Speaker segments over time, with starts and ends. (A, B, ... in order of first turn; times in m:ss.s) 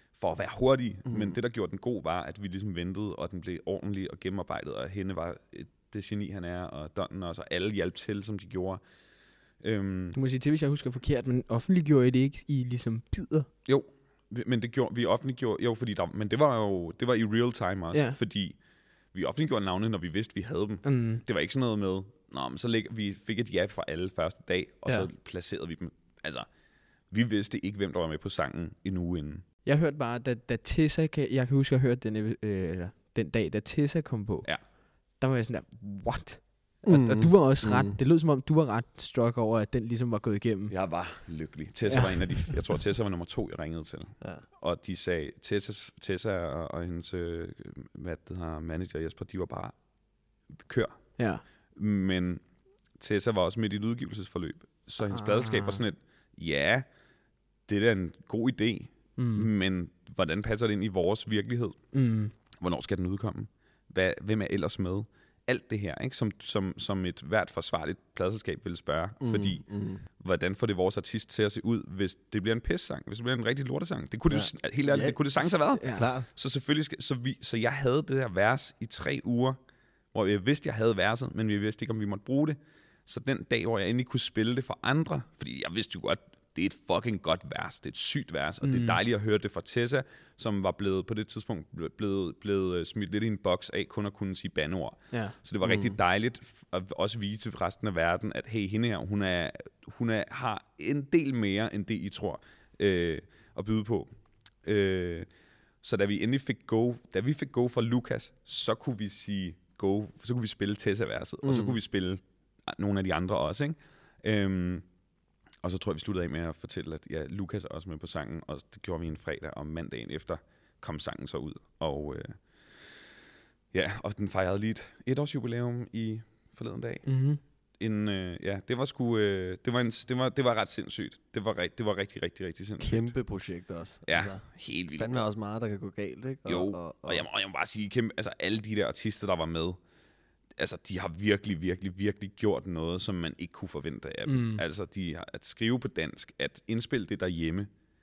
0:00.2-0:08.8 A
0:01.1-0:01.4 B
0:09.6-0:10.2 A
0:10.2-0:13.5 C
0:13.7-0:18.6 A
0:19.1-0:26.5 A
0:20.8-0:21.2 C
0:27.1-0:29.4 A
0:29.6-0:40.7 C
0:36.8-0:38.0 B
0:40.7-0:49.8 A
0:41.9-0:42.4 C
0:50.5-0:52.4 A
0:51.2-0:51.4 C
0:53.0-0:56.9 A
0:55.1-0:55.8 C
0:57.7-1:01.8 A
0:59.2-0:59.5 C
1:01.9-1:02.3 C
1:02.6-1:19.6 A
1:09.2-1:10.0 B
1:14.3-1:16.3 B
1:15.7-1:16.1 C
1:20.1-1:45.3 A
1:28.6-1:29.0 C
1:35.6-1:36.0 B
1:45.8-1:54.8 A
1:51.4-1:51.8 B
1:55.6-2:03.1 A
2:03.7-2:07.1 A
2:07.1-2:07.4 C
2:07.8-2:13.2 A
2:12.8-2:17.2 B
2:14.1-2:15.2 A
2:16.5-2:19.8 A
2:20.6-2:27.7 A
2:24.3-2:24.6 C